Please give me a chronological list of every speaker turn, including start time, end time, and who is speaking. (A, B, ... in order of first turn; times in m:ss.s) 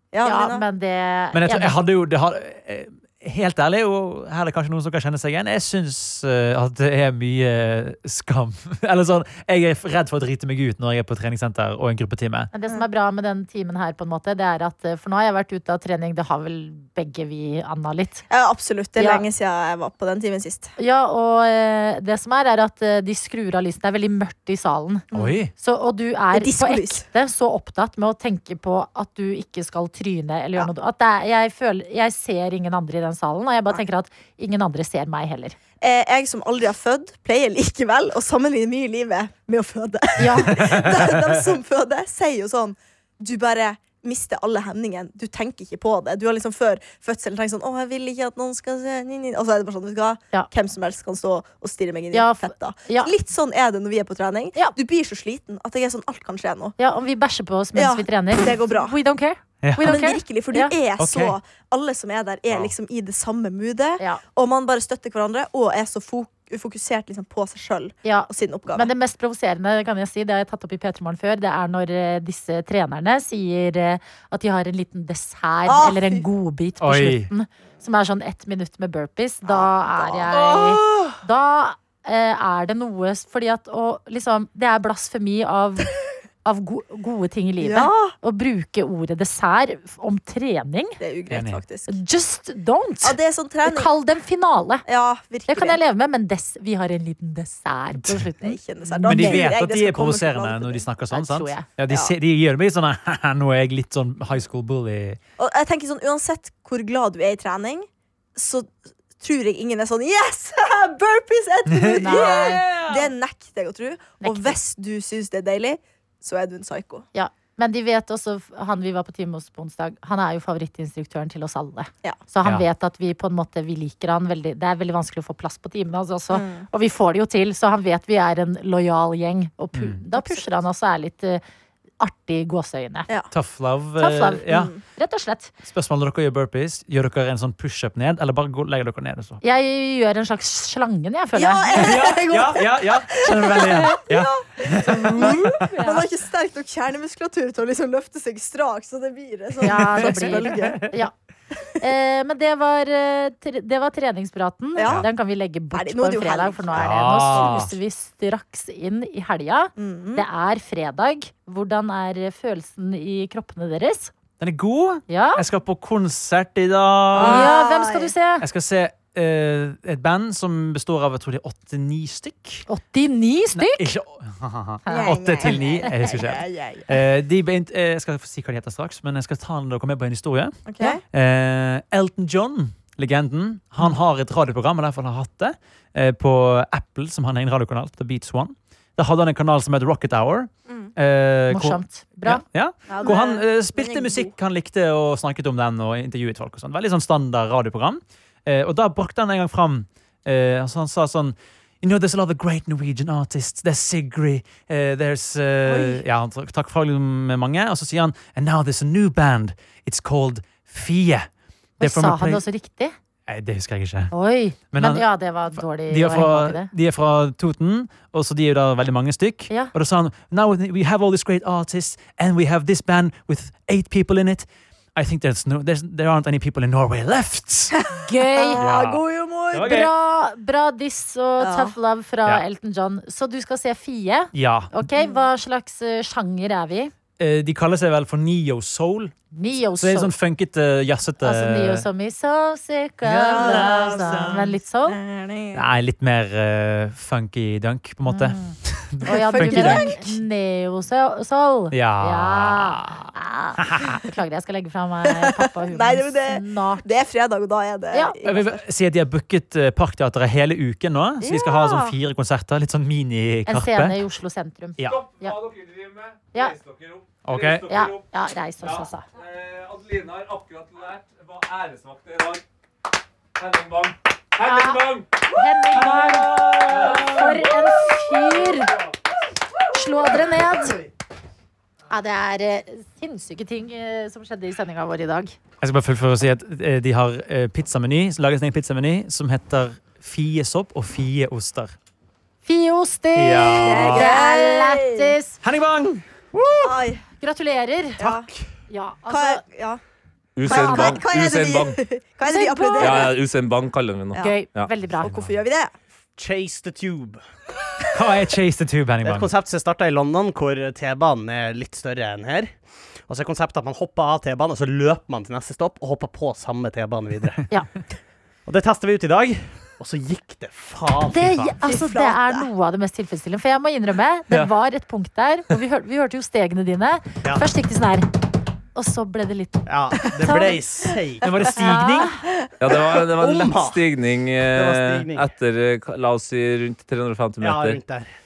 0:00.1-0:00.6 A
0:00.2-0:01.8 B
0:01.3-0:12.5 C
0:12.5-0:18.2 B
0:18.3-0:20.7 A
0:19.0-0:19.2 B
0:20.8-0:35.6 B
0:25.1-0:25.4 A
0:25.1-0:25.5 C
0:26.3-0:27.0 A
0:35.8-0:56.8 A
0:40.2-0:40.5 B
0:40.5-0:41.3 C
0:52.1-0:53.1 B
0:56.8-1:00.7 B
0:57.7-0:58.9 A
0:59.6-1:00.0 C
0:59.8-1:08.9 A
1:01.0-1:01.4 C
1:08.0-1:25.9 B
1:15.6-1:16.2 A
1:16.8-1:17.3 C
1:19.5-1:20.7 A
1:26.4-1:31.0 B
1:27.6-1:28.1 A
1:31.0-1:32.0 A
1:31.3-1:31.6 C
1:31.9-1:34.8 B
1:33.0-1:33.9 A
1:34.9-1:35.8 A
1:35.5-1:39.5 B
1:38.0-1:38.2 C
1:38.4-1:40.8 A
1:39.0-1:45.2 C
1:41.1-1:41.7 B
1:45.4-1:57.0 A
1:51.7-1:53.1 C
1:52.0-1:52.6 B
1:54.2-1:54.6 B
1:57.1-2:11.4 B
2:06.3-2:06.7 A
2:09.7-2:10.0 C
2:12.0-2:13.1 B
2:13.3-2:14.7 C
2:14.0-2:15.5 B
2:14.5-2:14.8 A
2:15.7-2:19.4 C
2:19.4-2:21.9 B
2:21.3-2:30.9 A
2:21.7-2:25.6 C
2:24.8-2:26.1 B
2:29.6-2:31.1 B
2:29.7-2:30.9 C
2:31.8-2:44.1 B
2:34.8-2:35.1 A
2:35.7-2:37.6 A
2:36.7-2:37.7 C
2:39.8-2:40.2 A
2:44.4-2:47.5 C
2:45.1-2:45.4 B
2:47.1-2:48.1 A
2:47.2-2:48.4 B
2:48.4-2:52.6 C
2:52.7-2:53.9 B
2:53.6-3:31.3 C
2:54.8-2:55.9 B
2:54.9-2:56.9 A
3:00.6-3:01.0 A
3:11.5-3:12.4 B
3:12.9-3:14.3 A
3:25.7-3:26.0 A
3:31.8-3:32.4 C
3:31.8-3:32.9 B
3:33.3-3:34.1 C
3:34.1-3:36.7 B
3:34.7-3:47.8 C
3:48.0-3:48.6 B
3:48.3-3:49.8 A
3:48.6-3:49.9 C
3:49.6-3:56.9 B
3:51.4-3:51.7 A
3:54.3-3:54.7 C
3:55.0-3:55.3 A
3:57.2-3:59.1 C
3:59.3-4:00.1 B
3:59.8-4:01.8 C
4:01.2-4:05.0 B
4:03.0-4:04.6 C
4:03.3-4:04.1 A
4:04.8-4:05.6 A
4:05.5-4:10.1 C
4:08.1-4:16.9 B
4:09.1-4:10.0 A
4:11.7-4:13.1 C
4:13.6-4:14.0 C
4:15.1-4:18.6 A
4:17.9-4:18.2 B
4:18.2-4:24.0 C
4:21.2-4:21.9 A
4:23.5-4:25.4 B
4:24.8-4:28.0 D
4:27.2-4:27.7 C
4:27.7-4:29.0 B
4:28.6-4:32.4 D
4:33.4-4:35.2 D
4:34.4-4:38.7 B
4:35.8-4:37.5 C
4:36.8-4:37.1 D
4:39.7-4:40.8 B
4:41.9-4:45.4 B
4:45.6-4:51.7 C
4:52.4-4:55.4 B
4:53.1-4:54.1 C
4:53.6-4:55.1 A
4:55.4-4:56.0 C
4:56.4-4:56.6 E
4:56.6-4:57.0 A
4:57.2-4:58.0 B
4:58.0-4:58.3 A
4:58.0-4:58.4 E
4:58.7-4:59.4 B
4:59.1-4:59.8 A
5:00.4-5:01.8 D
5:00.4-5:03.1 A
5:00.4-5:01.0 B
5:02.2-5:03.1 B
5:02.8-5:04.7 D
5:04.2-5:05.1 B
5:05.0-5:05.7 A
5:06.2-5:07.2 E
5:07.9-5:09.3 C
5:09.0-5:12.5 E
5:13.1-5:17.4 E
5:18.4-5:21.5 E
5:21.1-5:28.1 B
5:21.6-5:22.5 A
5:28.7-5:30.5 B
5:29.6-5:31.3 E
5:30.1-5:30.4 A
5:31.2-5:32.2 C
5:31.6-5:32.2 B
5:32.6-5:37.8 D
5:33.0-5:33.8 E
5:34.5-5:35.3 E
5:37.4-5:38.1 E